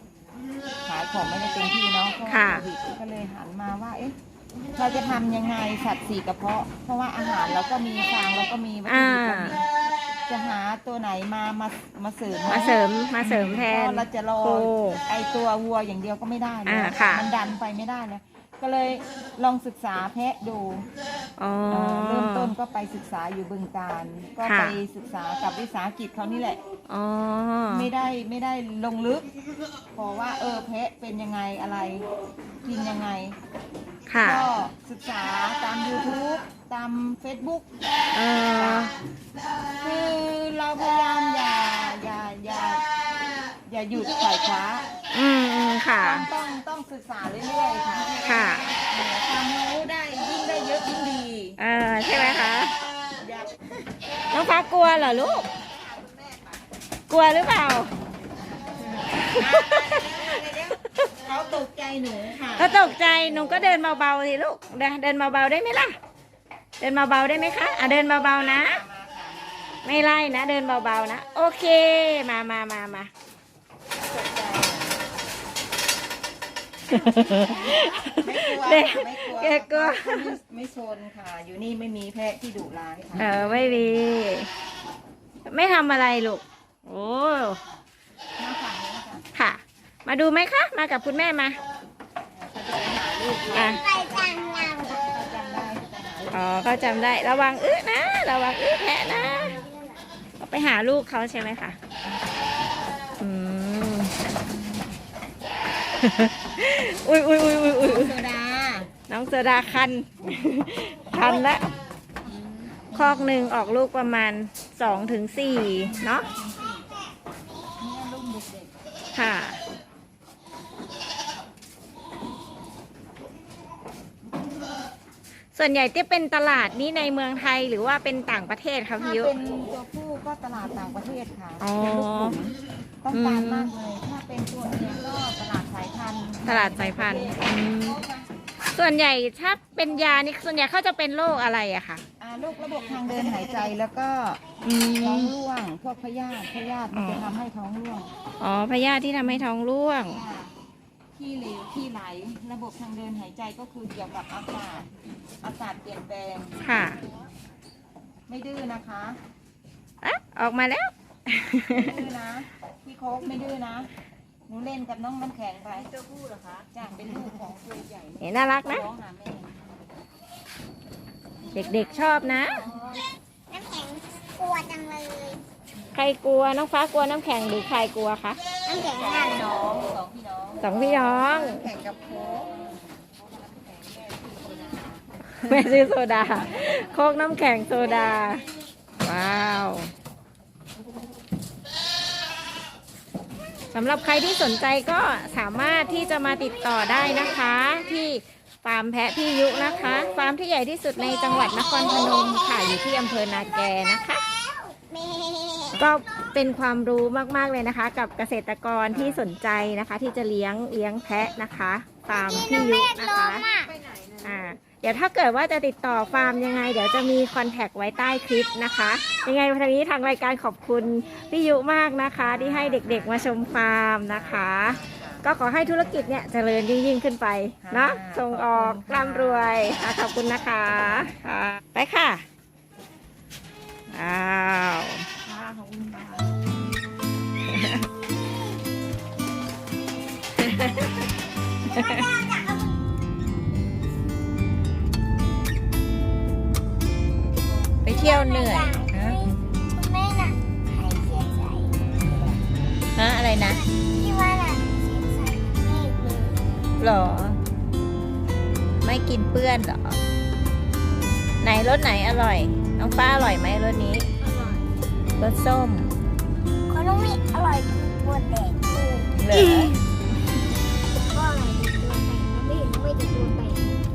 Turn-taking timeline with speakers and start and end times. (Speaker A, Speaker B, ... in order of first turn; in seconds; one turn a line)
Speaker A: 0.8-4.2
Speaker B: 2.3-2.6
Speaker A: 4.8-9.7
Speaker B: 8.8-9.6
Speaker A: 10.3-20.9
Speaker B: 12.5-15.0
Speaker B: 16.6-17.2
Speaker B: 21.4-22.5
Speaker A: 21.7-26.6
Speaker B: 24.4-24.8
Speaker B: 26.9-27.9
Speaker A: 27.7-29.2
Speaker A: 29.9-32.0
Speaker A: 32.6-33.4
Speaker B: 34.1-34.4
Speaker A: 34.2-37.7
Speaker B: 38.1-38.9
Speaker A: 38.5-38.9
Speaker A: 39.8-42.8
Speaker A: 43.6-44.9
Speaker B: 45.1-46.3
Speaker A: 46.0-51.6
Speaker B: 48.2-48.7
Speaker B: 51.6-52.8
Speaker A: 53.2-53.6
Speaker B: 54.3-55.5
Speaker B: 57.1-57.9
Speaker A: 59.0-63.8
Speaker B: 59.3-60.0
Speaker B: 62.6-65.9
Speaker B: 66.8-68.8
Speaker A: 68.4-69.8
Speaker B: 69.8-73.1
Speaker A: 74.0-75.0
Speaker B: 76.9-80.3
Speaker A: 77.7-83.9
Speaker B: 83.2-84.5
Speaker B: 85.5-87.6
Speaker A: 88.4-89.3
Speaker B: 89.3-91.6
Speaker A: 92.3-96.5
Speaker B: 93.5-93.8
Speaker C: 93.9-95.0
Speaker B: 96.3-99.6
Speaker B: 100.4-101.8
Speaker B: 103.2-104.2
Speaker B: 106.0-108.1
Speaker A: 107.8-108.9
Speaker B: 109.1-111.7
Speaker A: 112.2-113.3
Speaker B: 112.9-116.2
Speaker A: 115.4-116.9
Speaker A: 117.8-118.7
Speaker B: 119.1-119.6
Speaker B: 125.5-129.3
Speaker A: 128.9-138.3
Speaker B: 131.6-132.4
Speaker B: 133.1-133.7
Speaker B: 136.4-138.0
Speaker B: 138.7-142.0
Speaker A: 142.2-144.4
Speaker B: 144.6-145.3
Speaker A: 145.0-148.1
Speaker B: 146.9-147.3
Speaker B: 148.4-150.2
Speaker A: 150.1-150.5
Speaker A: 151.1-154.9
Speaker A: 155.4-156.6
Speaker B: 156.6-157.0
Speaker A: 158.3-159.2
Speaker B: 160.0-162.0
Speaker A: 161.7-163.9
Speaker A: 164.5-165.9
Speaker A: 166.6-169.6
Speaker B: 168.2-168.8
Speaker B: 171.5-172.7
Speaker A: 171.7-172.2
Speaker C: 173.5-175.4
Speaker B: 175.9-178.4
Speaker C: 178.7-179.5
Speaker A: 178.8-186.0
Speaker B: 180.6-181.7
Speaker B: 185.4-188.4
Speaker B: 189.0-189.9
Speaker B: 193.7-204.2
Speaker C: 204.7-205.7
Speaker B: 205.7-213.5
Speaker A: 208.9-209.2
Speaker C: 213.1-213.7
Speaker B: 214.2-232.2
Speaker A: 222.2-225.9
Speaker A: 227.6-229.8
Speaker B: 233.9-235.1
Speaker A: 235.2-236.3
Speaker B: 237.5-237.8
Speaker B: 240.4-241.0
Speaker B: 241.7-242.1
Speaker C: 241.7-242.5
Speaker B: 247.8-249.1
Speaker C: 247.8-252.4
Speaker B: 252.9-253.6
Speaker C: 253.4-256.4
Speaker B: 256.8-257.4
Speaker B: 258.8-260.0
Speaker B: 261.4-264.1
Speaker C: 264.2-264.6
Speaker B: 265.2-265.9
Speaker C: 266.7-269.7
Speaker B: 269.2-269.7
Speaker C: 271.0-273.8